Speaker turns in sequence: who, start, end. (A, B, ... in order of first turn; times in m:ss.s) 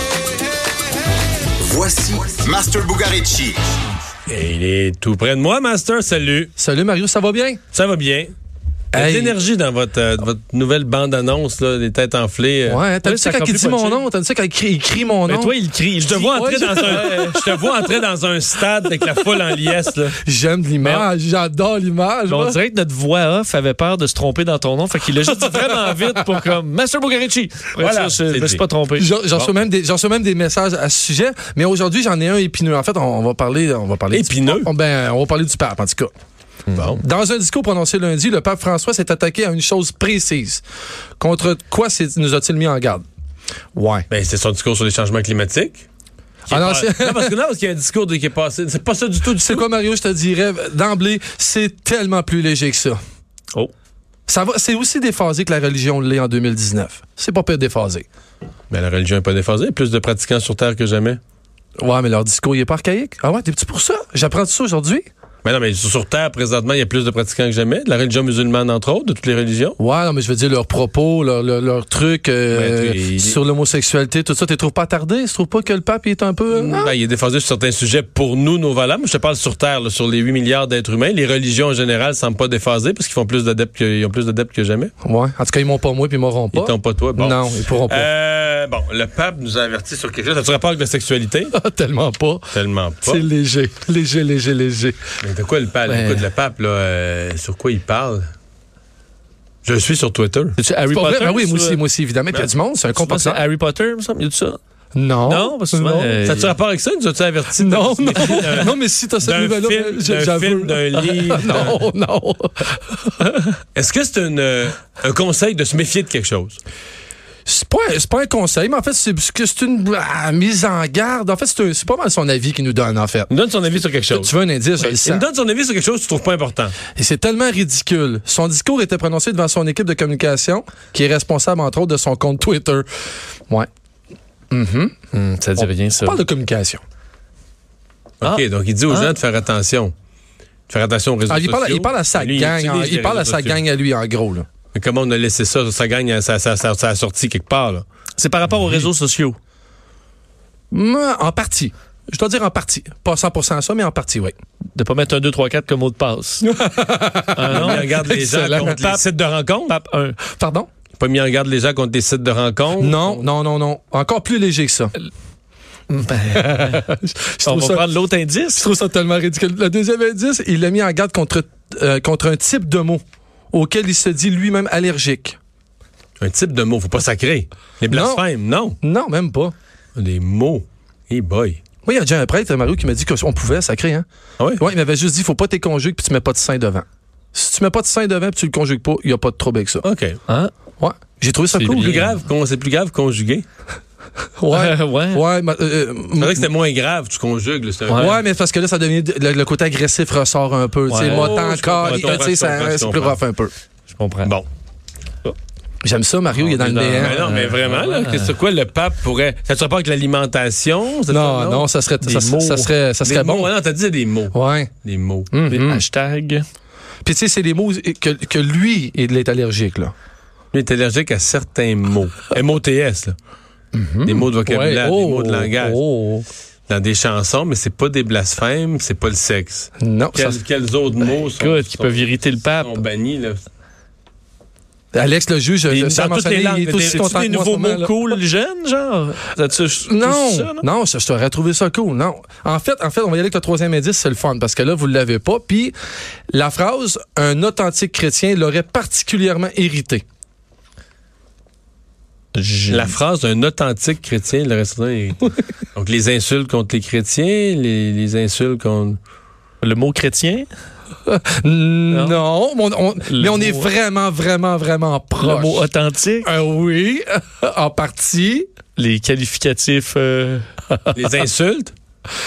0:01.6-0:03.6 A
0:04.3-0:06.5 B
0:06.6-0:07.6 C
0:07.7-0:08.3 B
0:08.9-0:09.4 C
0:08.9-0:12.9 B
0:12.7-0:15.6 C
0:13.0-0:14.0 D
0:15.3-0:17.6 D
0:16.0-0:20.2 B
0:16.3-0:16.9 C
0:20.2-0:22.6 C
0:20.8-0:21.1 D
0:22.3-0:29.1 D
0:25.4-0:26.2 C
0:27.8-0:28.6 B
0:29.0-0:36.1 C
0:34.1-0:34.7 B
0:36.7-0:37.0 B
0:37.0-0:40.6 C
0:41.2-0:43.0 C
0:43.7-0:44.0 C
0:44.1-0:45.8 B
0:46.5-0:47.3 C
0:46.5-0:49.6 B
0:49.3-0:53.0 C
0:54.3-0:58.0 C
0:58.7-1:01.2 B
1:01.8-1:05.1 C
1:05.4-1:09.8 B
1:09.8-1:16.9 C
1:12.5-1:13.4 B
1:16.5-1:24.9 B
1:25.0-1:28.1 C
1:26.5-1:31.5 B
1:31.5-1:35.0 C
1:32.5-1:33.3 B
1:35.2-1:38.2 B
1:35.9-1:36.2 C
1:39.6-1:40.6 B
1:40.6-1:41.8 D
1:40.8-1:43.4 C
1:42.3-1:44.6 D
1:44.9-1:46.2 C
1:45.2-1:46.5 D
1:46.2-1:51.8 B
1:47.5-1:53.1 C
1:53.7-1:56.6 B
1:57.4-2:03.3 C
2:03.3-2:06.9 B
2:04.1-2:05.2 C
2:06.9-2:12.8 C
2:14.5-2:14.9 C
2:15.1-2:16.2 D
2:15.6-2:16.8 C
2:18.2-2:19.9 B
2:18.2-2:19.1 D
2:20.7-2:23.6 B
2:21.3-2:24.4 C
2:24.7-2:27.8 B
2:28.2-2:29.4 D
2:30.7-2:34.3 C
2:34.7-2:36.4 D
2:36.4-2:38.9 C
2:37.3-2:37.9 D
2:37.5-2:39.8 B
2:39.7-2:40.2 D
2:40.3-2:40.7 C
2:41.0-2:43.2 B
2:42.8-2:44.9 C
2:45.9-2:46.8 D
2:46.3-2:47.9 C
2:47.4-2:48.7 D
2:48.6-2:55.4 C
2:56.2-2:58.8 B
2:57.9-2:58.2 C
2:58.8-2:59.5 C
2:59.9-3:01.6 B
3:01.8-3:04.0 C
3:04.4-3:04.7 B
3:04.6-3:09.8 C
3:09.8-3:10.2 B
3:10.8-3:12.0 C
3:11.5-3:12.1 D
3:11.7-3:13.4 B
3:14.4-3:16.4 C
3:14.5-3:15.2 D
3:16.2-3:18.2 B
3:17.9-3:18.2 D
3:18.0-3:23.5 C
3:20.9-3:21.2 D
3:21.0-3:23.2 B
3:21.8-3:22.2 D
3:23.9-3:24.3 D
3:25.8-3:27.2 C
3:26.4-3:28.3 D
3:26.8-3:31.7 B
3:31.1-3:33.5 C
3:32.1-3:32.7 D
3:33.0-3:35.4 B
3:34.3-3:34.7 C
3:35.3-3:35.8 C
3:35.4-3:36.4 D
3:37.0-3:39.9 C
3:40.5-3:43.2 B
3:43.7-3:46.3 C
3:44.0-3:45.8 B
3:46.7-3:53.4 B
3:49.8-3:50.4 C
3:51.4-3:52.8 D
3:54.9-3:58.0 C
3:55.7-3:57.2 B
3:55.8-3:56.0 D
3:56.9-4:00.7 D
3:59.8-4:05.7 C
4:06.3-4:10.0 C
4:12.3-4:13.0 D
4:12.7-4:19.0 B
4:19.6-4:20.5 D
4:21.0-4:25.7 C
4:21.9-4:22.2 D
4:23.0-4:23.7 D
4:25.2-4:26.3 D
4:26.2-4:28.5 C
4:28.8-4:31.0 D
4:30.9-4:31.7 B